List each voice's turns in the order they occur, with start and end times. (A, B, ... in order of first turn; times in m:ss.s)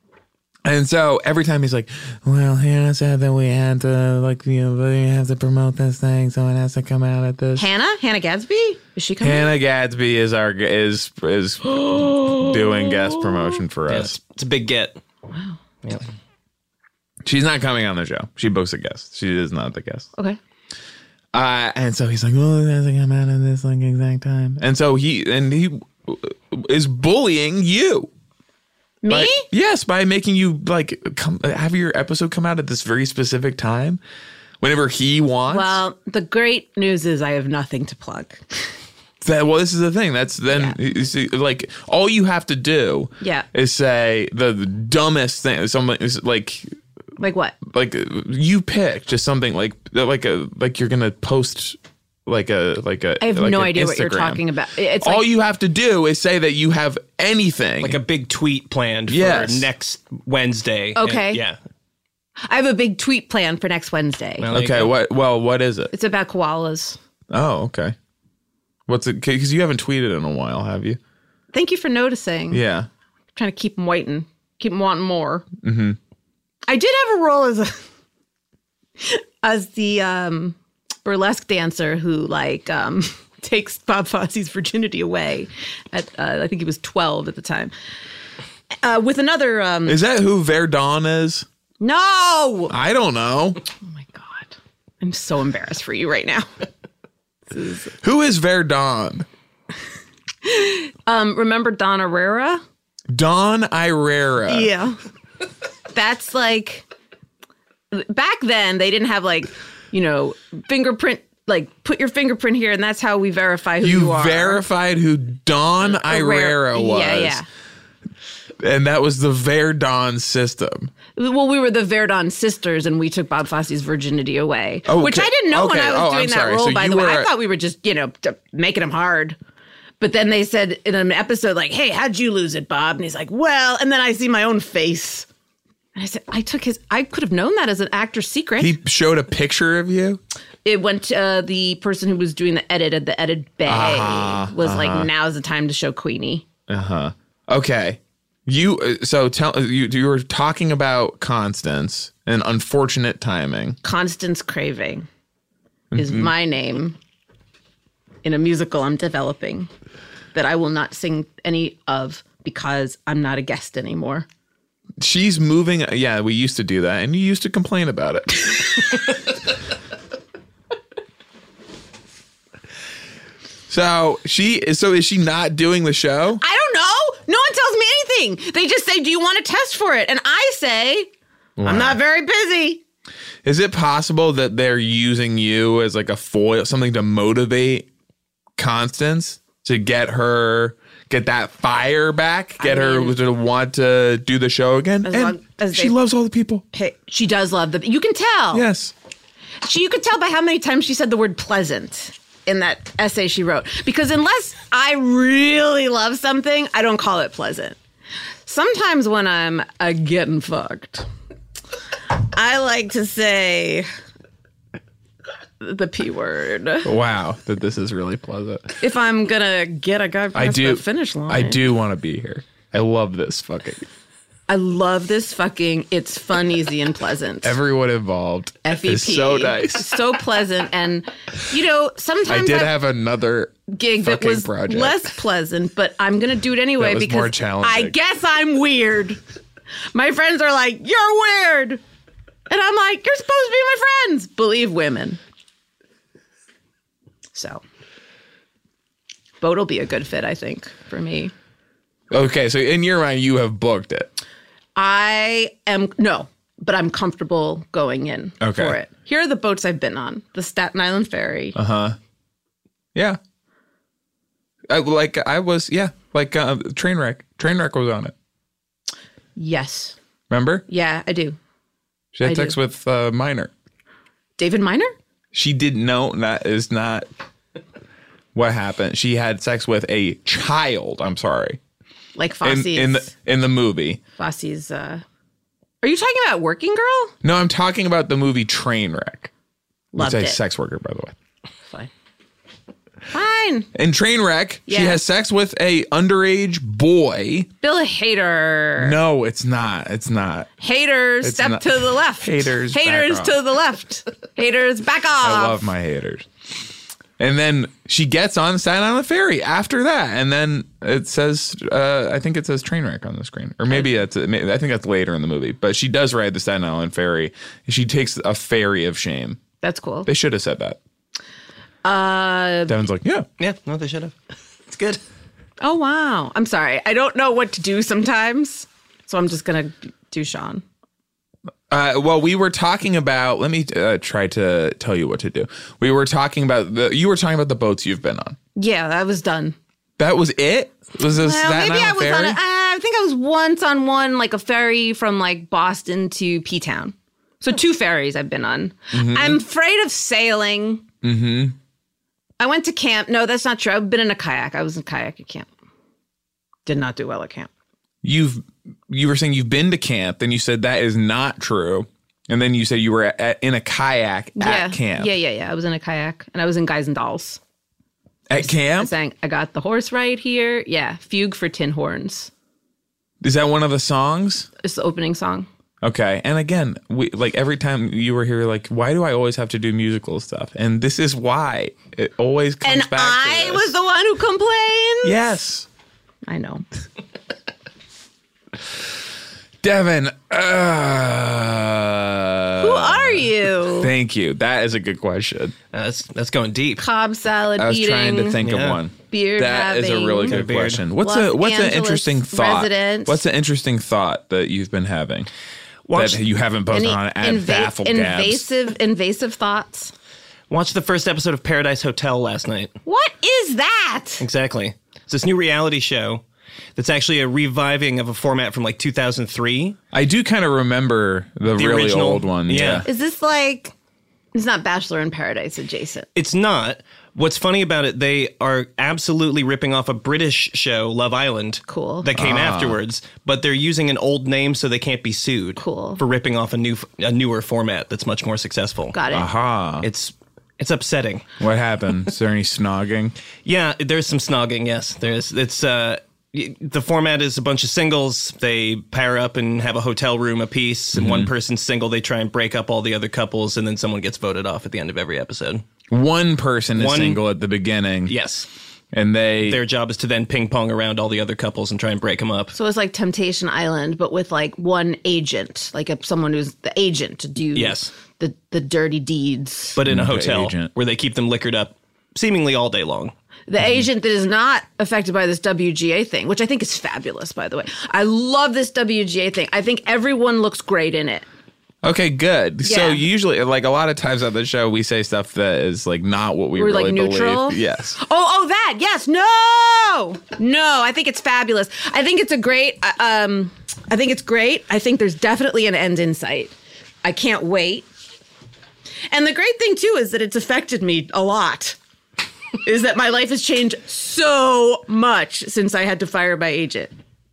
0:00.6-0:07.7 A
0:07.6-0:09.5 B
0:09.2-0:14.2 A
0:12.0-0:12.9 B
0:13.9-0:15.0 C
0:15.3-0:15.6 B
0:15.8-0:16.1 C
0:17.2-0:20.1 A
0:21.3-0:28.1 A
0:29.0-0:29.5 B
0:29.1-0:34.0 A
0:34.6-0:35.8 A
0:35.5-0:38.7 B
0:39.2-0:46.7 A
0:40.5-0:40.8 B
0:43.2-0:43.4 B
0:47.2-0:47.6 B
0:47.6-0:54.4 A
0:53.2-0:55.2 B
0:55.0-0:58.0 A
0:57.8-1:01.6 C
0:59.1-0:59.7 A
1:01.0-1:01.4 B
1:02.4-1:04.5 B
1:04.4-1:04.9 C
1:04.5-1:05.9 A
1:05.9-1:07.0 B
1:07.3-1:07.9 A
1:08.9-1:11.0 A
1:11.5-1:12.6 B
1:12.5-1:12.9 A
1:13.3-1:15.4 B
1:15.6-1:16.0 A
1:16.7-1:17.8 B
1:19.0-1:27.7 B
1:28.8-1:30.0 B
1:29.8-1:31.4 A
1:31.8-1:32.7 B
1:32.7-1:33.6 A
1:33.9-1:36.5 B
1:37.5-1:37.9 B
1:38.0-1:39.2 A
1:40.4-1:42.6 B
1:43.1-1:44.7 A
1:44.5-1:45.0 B
1:45.9-1:46.8 B
1:47.9-1:54.6 B
1:53.8-1:57.4 A
1:55.8-1:57.4 B
1:58.6-2:00.9 A
2:01.2-2:09.4 B
2:04.8-2:07.3 A
2:10.0-2:15.3 B
2:16.0-2:18.8 B
2:18.6-2:20.2 A
2:20.6-2:26.4 B
2:23.6-2:25.1 A
2:26.7-2:33.8 A
2:33.8-2:35.1 B
2:35.9-2:36.3 A
2:35.9-2:37.0 B
2:38.2-2:39.7 B
2:40.3-2:44.3 B
2:45.0-2:49.0 A
2:53.7-2:56.4 A
2:56.4-3:01.1 B
3:01.6-3:02.0 A
3:01.6-3:02.8 B
3:03.4-3:07.9 A
3:08.6-3:16.6 A
3:12.6-3:13.2 B
3:15.0-3:16.0 B
3:16.7-3:18.6 B
3:18.5-3:18.9 A
3:19.6-3:27.8 B
3:28.4-3:31.1 B
3:32.2-3:33.9 B
3:35.6-3:36.9 B
3:36.8-3:38.8 A
3:38.8-3:41.6 B
3:40.3-3:43.8 A
3:44.5-3:47.6 B
3:47.4-3:50.0 A
3:48.6-3:52.7 B
3:52.2-3:55.1 A
3:53.7-3:59.2 B
3:56.8-3:57.9 A
3:59.9-4:01.8 B
4:02.5-4:05.2 B
4:07.3-4:07.6 B
4:09.4-4:11.3 B
4:12.1-4:14.1 A
4:14.8-4:21.6 B
4:18.4-4:18.8 A
4:21.5-4:22.0 A
4:24.7-4:28.1 A
4:29.4-4:30.0 B
4:30.3-4:30.6 A
4:30.7-4:31.4 B
4:32.1-4:33.5 A
4:32.2-4:32.6 B
4:34.4-4:34.9 B
4:35.3-4:37.1 A
4:38.3-4:41.6 A
4:42.2-4:43.1 B
4:42.4-4:44.0 A
4:44.2-4:45.0 B
4:45.8-4:47.1 B
4:47.2-4:49.3 A
4:49.9-4:50.4 B
4:50.0-4:51.1 A
4:53.1-4:53.7 B
4:53.7-4:57.5 A
4:54.7-4:55.0 B
4:57.6-4:59.0 B
4:58.8-5:00.5 A
5:00.6-5:05.6 B
5:01.2-5:03.4 A
5:05.2-5:06.3 A
5:07.2-5:19.4 A
5:19.6-5:20.1 B
5:20.0-5:20.8 A
5:21.8-5:22.7 B
5:22.7-5:23.3 A
5:23.4-5:24.2 C
5:24.7-5:25.0 C
5:25.6-5:30.6 B
5:31.7-5:38.4 A
5:38.6-5:39.6 B
5:40.0-5:42.4 A
5:41.1-5:50.8 B
5:48.9-5:49.4 A
5:51.0-5:51.6 A
5:52.4-5:55.5 B
5:56.6-5:57.5 B
5:58.0-6:05.1 A
6:04.4-6:07.4 B
6:08.3-6:08.9 A
6:08.4-6:12.3 B
6:13.2-6:14.5 A
6:14.6-6:15.5 B
6:15.8-6:23.7 A
6:22.6-6:25.2 B
6:25.0-6:25.7 A
6:26.3-6:26.6 B
6:29.6-6:35.5 A
6:32.6-6:33.9 B
6:35.7-6:36.8 C
6:36.8-6:38.4 B
6:37.6-6:45.3 A
6:38.4-6:38.8 C
6:39.1-6:40.4 B
6:40.3-6:40.8 C
6:41.0-6:43.2 B
6:45.9-6:46.2 C
6:45.9-6:48.4 A
6:46.7-6:49.9 B
6:50.5-6:52.7 C
6:52.8-6:54.2 B
6:54.2-6:56.2 C
6:56.8-6:59.8 C
6:59.9-7:02.8 A
7:01.6-7:02.8 C
7:02.8-7:03.7 B
7:04.3-7:06.1 B
7:06.2-7:19.0 C
7:11.7-7:12.1 B
7:12.1-7:12.8 A
7:15.6-7:16.0 B
7:18.9-7:19.3 B
7:19.1-7:19.9 A
7:19.8-7:21.2 C
7:21.4-7:23.1 A
7:23.4-7:35.6 C
7:30.9-7:31.3 A
7:35.9-7:38.2 A
7:36.8-7:37.2 C
7:38.1-7:38.5 C
7:38.9-7:39.6 A
7:39.4-7:42.5 C
7:42.5-7:49.8 B
7:47.5-7:47.9 C
7:49.8-7:53.1 C
7:49.8-7:50.7 A
7:53.5-8:01.2 B
8:01.8-8:08.0 A
8:02.6-8:03.0 B
8:06.6-8:17.9 B
8:19.1-8:21.8 B
8:22.6-8:26.9 B